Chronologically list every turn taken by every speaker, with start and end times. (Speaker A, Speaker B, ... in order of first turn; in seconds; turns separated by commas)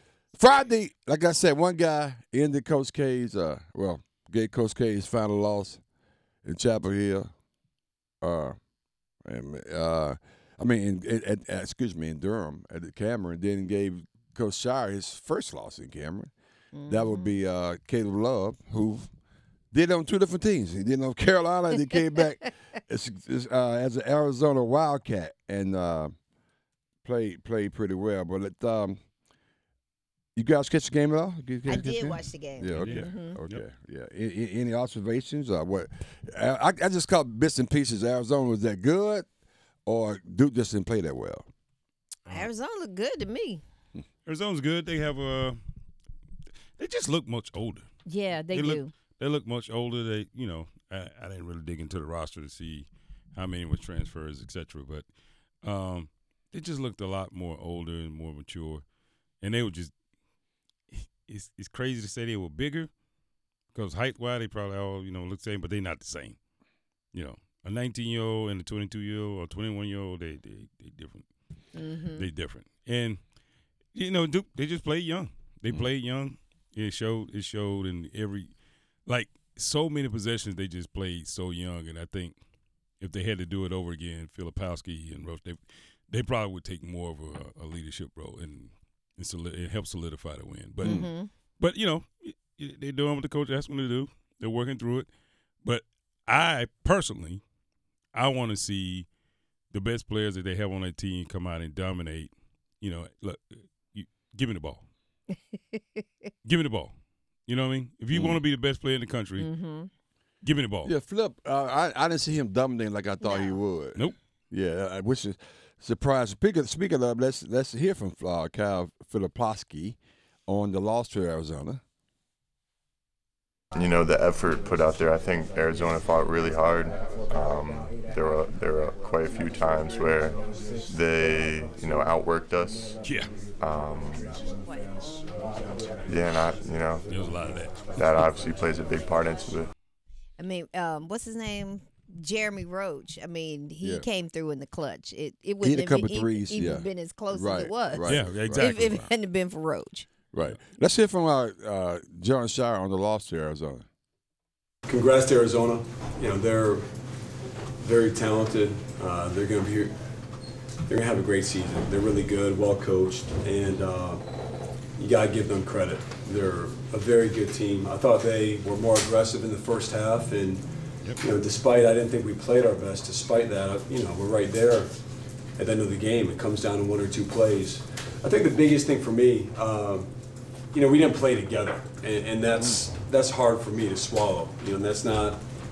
Speaker A: 0.4-5.8, Speaker A: 6.4-7.3, Speaker A: 8.2-8.6, Speaker A: 9.2-16.3, Speaker B: 16.7-17.3, Speaker A: 16.9-19.1, Speaker A: 19.7-26.1, Speaker A: 27.0-29.0, Speaker A: 30.4-39.2, Speaker B: 31.6-33.4, Speaker C: 32.7-33.6, Speaker A: 39.9-41.5, Speaker B: 42.3-43.6, Speaker C: 44.2-45.6, Speaker C: 46.8-47.9, Speaker B: 48.1-48.9, Speaker C: 48.5-55.0, Speaker C: 55.6-58.8, Speaker C: 59.4-59.9, Speaker C: 60.9-62.9, Speaker C: 63.7-66.4, Speaker C: 67.1-71.3, Speaker B: 71.7-72.3, Speaker C: 72.2-73.2, Speaker C: 73.9-78.5, Speaker C: 79.0-82.3, Speaker C: 83.0-91.1, Speaker A: 90.8-91.1, Speaker B: 90.8-91.3, Speaker C: 91.6-95.1, Speaker C: 95.6-97.4, Speaker C: 98.1-99.1, Speaker C: 99.7-104.8, Speaker C: 106.4-106.9, Speaker C: 107.5-109.5, Speaker A: 108.1-108.4, Speaker B: 109.4-109.9, Speaker C: 110.4-110.9, Speaker A: 110.8-121.8, Speaker B: 113.2-113.6, Speaker D: 123.7-133.0, Speaker C: 133.0-133.3, Speaker D: 133.6-134.3, Speaker B: 134.5-134.8, Speaker D: 136.1-137.1, Speaker C: 137.1-137.9, Speaker D: 137.9-139.7, Speaker B: 140.4-150.1, Speaker A: 143.8-144.1, Speaker A: 145.6-149.0, Speaker C: 148.0-149.0, Speaker A: 150.3-153.8, Speaker E: 154.9-156.8, Speaker E: 157.8-159.9, Speaker E: 160.9-164.2, Speaker E: 165.0-170.6, Speaker E: 171.2-174.9, Speaker E: 175.6-180.1, Speaker E: 180.7-185.4